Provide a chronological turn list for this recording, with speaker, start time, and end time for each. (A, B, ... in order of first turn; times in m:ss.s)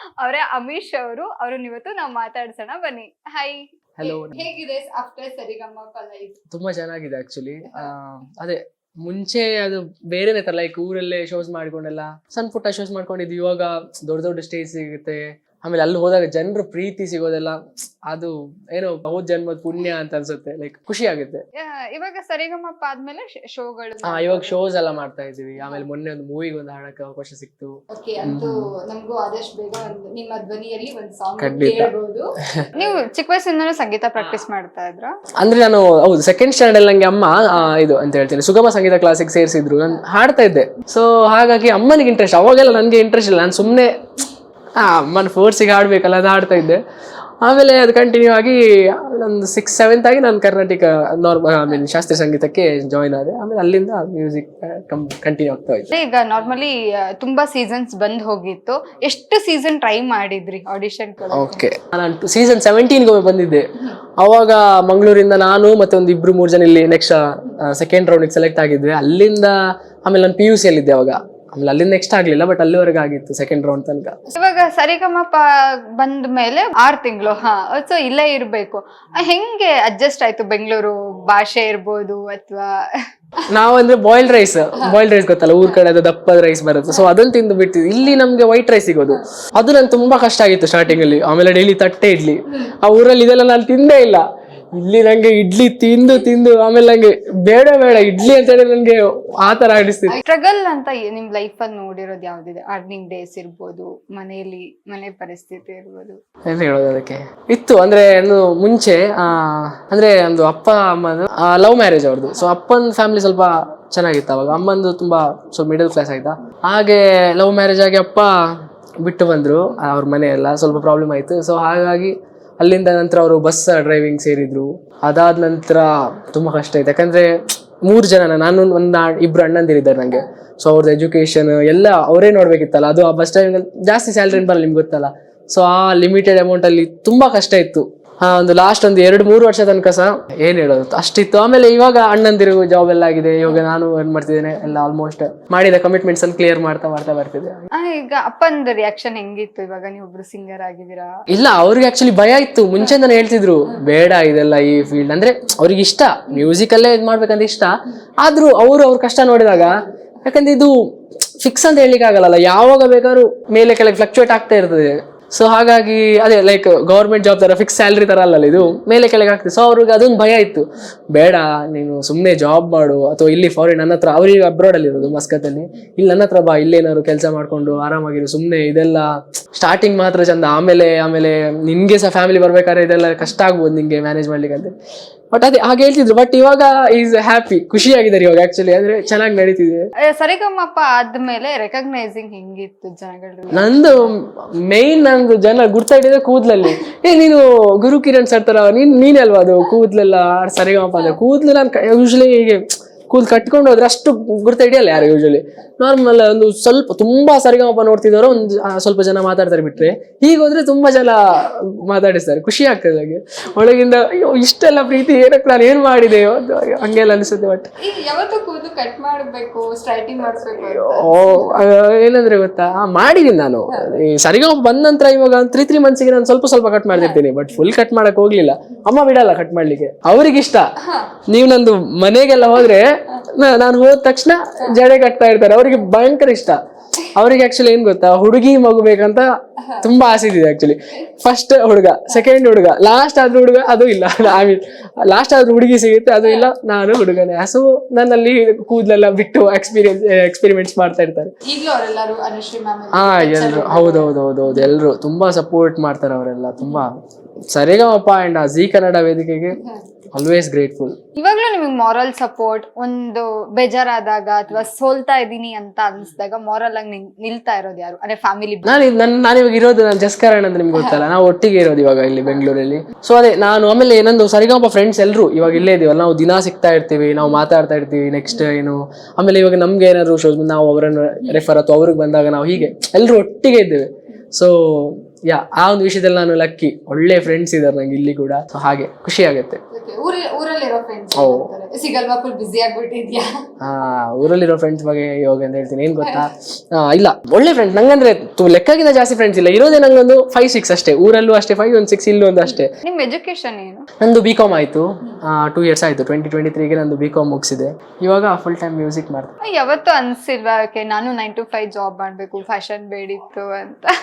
0:00.2-0:06.4 A
0:04.0-0:04.4 B
0:06.5-0:21.4 B
0:21.6-0:24.6 A
0:24.0-0:28.6 B
0:27.9-0:35.1 A
0:31.4-0:31.9 B
0:35.4-0:44.0 B
0:44.8-0:46.8 B
0:47.4-0:55.9 B
0:55.9-1:01.7 A
1:01.3-1:03.7 B
1:04.2-1:14.2 B
1:14.3-1:22.7 A
1:23.5-1:40.2 B
1:40.1-1:46.2 A
1:46.5-1:58.3 B
1:59.0-2:07.3 B
2:07.8-2:27.7 B
2:27.7-2:31.1 A
2:31.3-2:40.8 B
2:41.4-3:04.7 B
3:05.3-3:09.9 B
3:10.0-3:14.1 A
3:13.5-3:37.7 B
3:37.8-3:41.5 A
3:40.2-3:50.6 B
3:43.7-3:43.9 A
3:46.9-3:47.2 A
3:50.8-3:51.1 A
3:51.3-3:56.6 B
3:57.1-3:59.3 B
3:59.6-3:59.9 A
3:59.8-4:11.3 B
4:11.4-4:14.7 A
4:12.9-4:16.9 B
4:17.5-4:19.6 B
4:19.5-4:19.9 A
4:20.1-4:21.0 B
4:21.1-4:28.7 A
4:28.6-4:49.6 B
4:30.7-4:31.0 A
4:49.7-4:53.3 A
4:51.2-4:51.5 B
4:53.6-5:02.7 B
5:02.4-5:03.9 A
5:04.0-5:09.3 B
5:09.4-5:13.9 A